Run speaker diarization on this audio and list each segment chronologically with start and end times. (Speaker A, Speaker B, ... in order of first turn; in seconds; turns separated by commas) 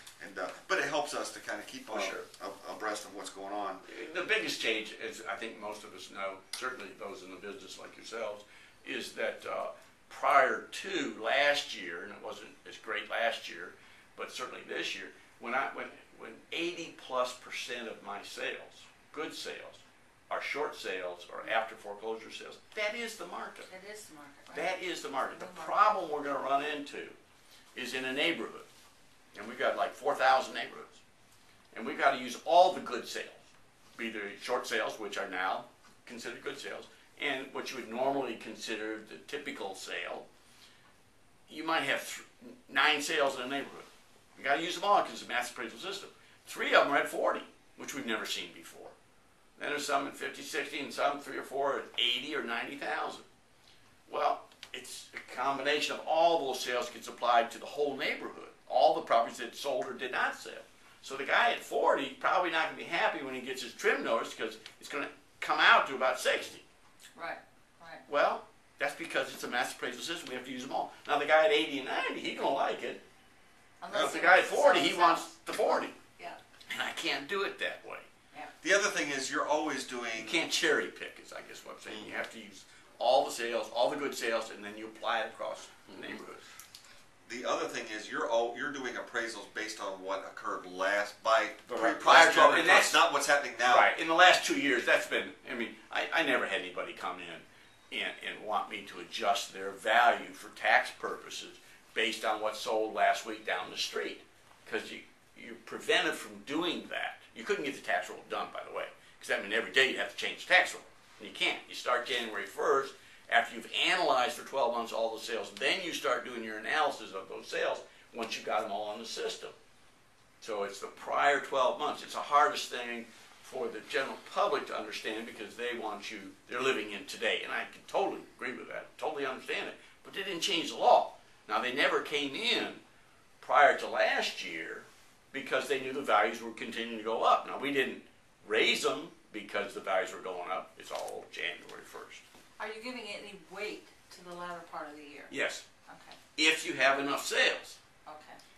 Speaker A: 0.2-3.8, Speaker B: 1.9-2.3, Speaker B: 3.8-23.7, Speaker C: 23.7-26.0, Speaker B: 24.5-27.2, Speaker B: 27.8-28.7, Speaker B: 29.3-31.0, Speaker B: 31.7-33.4, Speaker B: 34.0-40.3, Speaker B: 41.5-49.0, Speaker B: 49.6-53.3, Speaker B: 54.1-66.6, Speaker C: 67.2-68.0, Speaker B: 68.1-73.0, Speaker C: 73.8-76.4, Speaker A: 73.9-74.2, Speaker B: 73.9-76.0, Speaker B: 76.7-78.1, Speaker A: 78.6-80.4, Speaker B: 80.2-86.5, Speaker A: 81.9-82.2, Speaker A: 87.3-93.9, Speaker B: 91.7-93.0, Speaker B: 93.6-119.6, Speaker B: 120.4-132.8, Speaker B: 133.4-142.2, Speaker C: 142.6-145.3, Speaker B: 145.3-145.6, Speaker C: 145.9-146.2, Speaker B: 146.3-147.8, Speaker C: 148.1-148.4